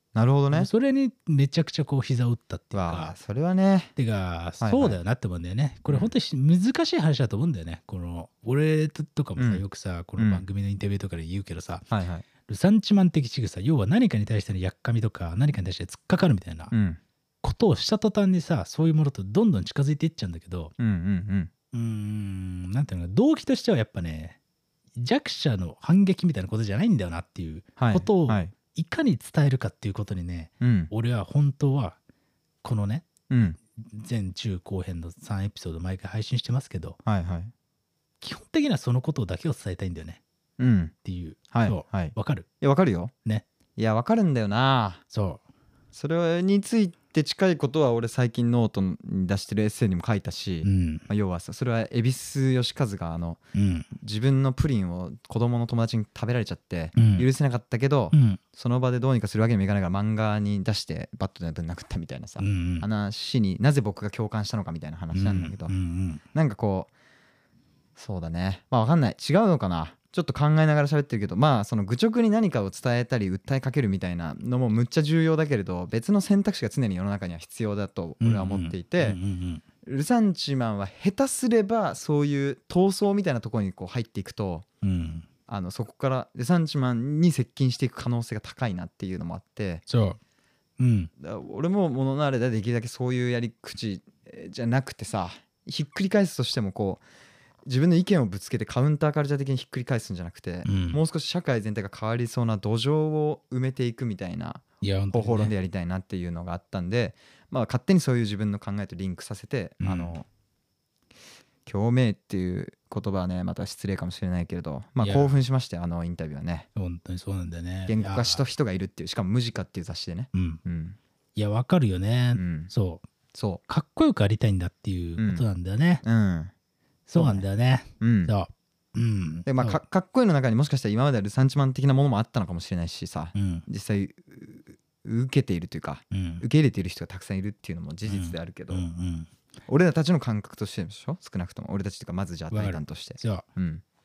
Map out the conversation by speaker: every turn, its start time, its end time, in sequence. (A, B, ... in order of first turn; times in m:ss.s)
0:00.2-0:00.7 A
0:00.5-0:03.2 B
0:02.7-0:03.9 A
0:04.0-0:11.9 B
0:04.6-0:05.0 A
0:09.4-0:09.6 A
0:10.2-0:10.5 A
0:11.9-0:12.3 A
0:12.5-0:16.7 B
0:16.7-0:17.0 A
0:17.4-0:20.7 B
0:20.8-0:21.5 A
0:21.7-0:24.4 B
0:25.0-0:32.0 B
0:27.8-0:28.5 A
0:30.6-0:30.9 A
0:32.6-0:33.1 B
0:33.3-0:33.6 A
0:33.8-0:37.0 B
0:37.0-0:37.5 A
0:38.2-0:40.2 B
0:40.6-0:40.9 A
0:41.0-0:42.5 B
0:41.5-0:43.1 A
0:43.8-0:45.0 A
0:45.1-0:45.4 B
0:45.9-0:53.4 A
0:50.6-0:51.1 B
0:53.6-0:53.9 B
0:54.0-1:05.7 A
0:57.0-0:57.3 B
0:58.1-0:58.4 B
1:02.4-1:02.9 B
1:05.1-1:06.2 B
1:06.3-1:06.9 A
1:08.0-1:19.2 A
1:18.2-1:19.6 B
1:19.8-1:24.7 A
1:24.8-1:25.3 B
1:25.5-1:29.8 A
1:29.9-1:30.2 B
1:30.8-1:31.1 B
1:31.2-1:37.0 A
1:37.6-1:50.3 A
1:40.6-1:41.0 B
1:44.8-1:45.5 B
1:49.8-1:50.2 B
1:51.6-1:56.7 A
1:55.0-1:55.4 B
1:56.8-1:58.4 B
1:57.9-2:01.0 A
2:00.3-2:00.6 B
2:01.4-2:03.0 B
2:02.4-2:02.7 A
2:03.3-2:03.6 A
2:03.7-2:06.0 B
2:05.2-2:05.5 A
2:06.0-2:06.5 A
2:07.1-2:09.8 B
2:07.2-2:07.5 A
2:08.0-2:08.3 A
2:09.5-2:18.8 A
2:13.4-2:13.7 B
2:16.1-2:16.4 B
2:18.1-2:19.3 B
2:19.7-2:23.8 A
2:22.5-2:23.4 B